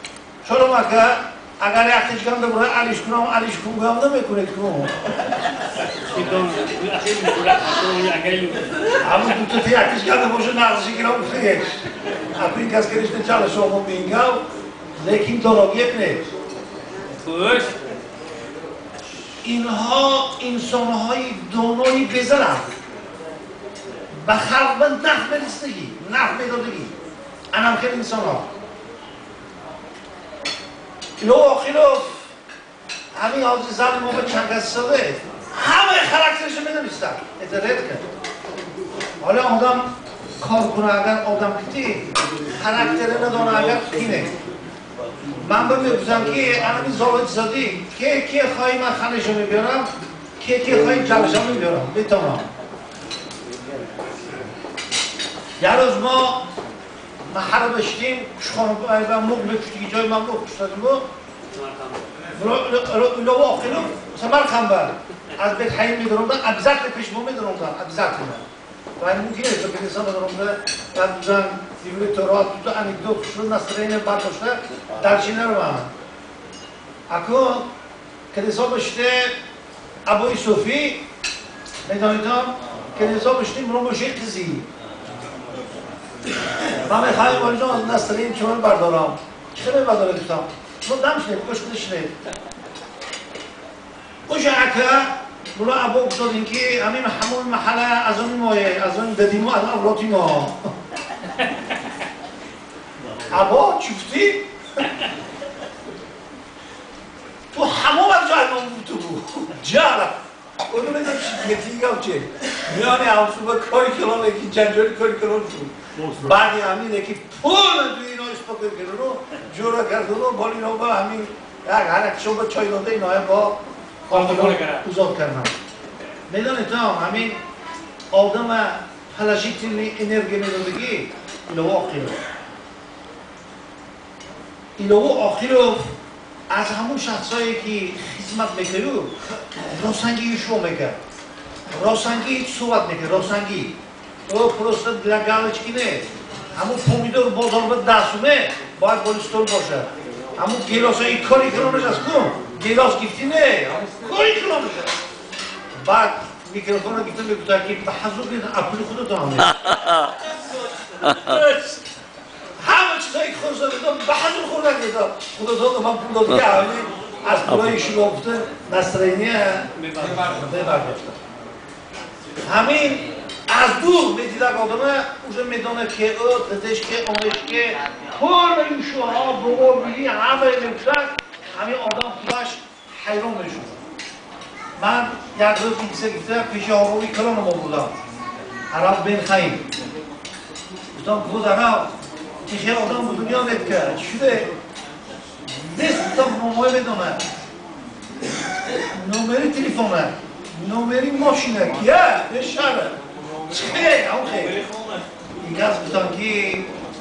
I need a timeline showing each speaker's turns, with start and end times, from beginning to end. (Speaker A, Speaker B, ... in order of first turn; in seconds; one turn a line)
Speaker A: 0.4-4.9
Speaker B: 6.1-8.9
Speaker A: 9.0-14.4
Speaker A: 15.0-16.2
Speaker B: 17.2-17.8
Speaker A: 19.4-22.7
Speaker A: 24.2-26.9
Speaker A: 27.5-28.4
Speaker A: 31.2-32.2
Speaker A: 33.1-38.0
Speaker A: 39.2-44.3
Speaker A: 45.4-49.9
Speaker A: 50.4-52.5
Speaker A: 55.6-56.4
Speaker A: 57.3-61.0
Speaker A: 62.3-68.4
Speaker A: 69.0-75.9
Speaker A: 77.1-77.7
Speaker A: 78.3-79.3
Speaker A: 80.0-81.0
Speaker A: 81.8-84.7
Speaker A: 86.7-92.1
Speaker A: 94.3-100.7
Speaker A: 103.3-104.5
Speaker A: 107.5-123.6
Speaker A: 124.1-125.5
Speaker B: 124.1-124.8
Speaker A: 126.3-127.4
Speaker A: 128.1-132.2
Speaker A: 134.8-135.9
Speaker A: 136.5-141.0
Speaker A: 141.7-143.8
Speaker A: 144.3-154.9
Speaker A: 155.8-159.5
Speaker B: 161.2-161.6
Speaker A: 162.6-171.2
Speaker A: 172.4-183.8
Speaker A: 184.8-187.9
Speaker A: 188.7-189.7
Speaker A: 190.9-191.9
Speaker A: 192.5-194.5
Speaker A: 195.7-197.2
Speaker A: 198.9-204.6
Speaker A: 205.4-206.7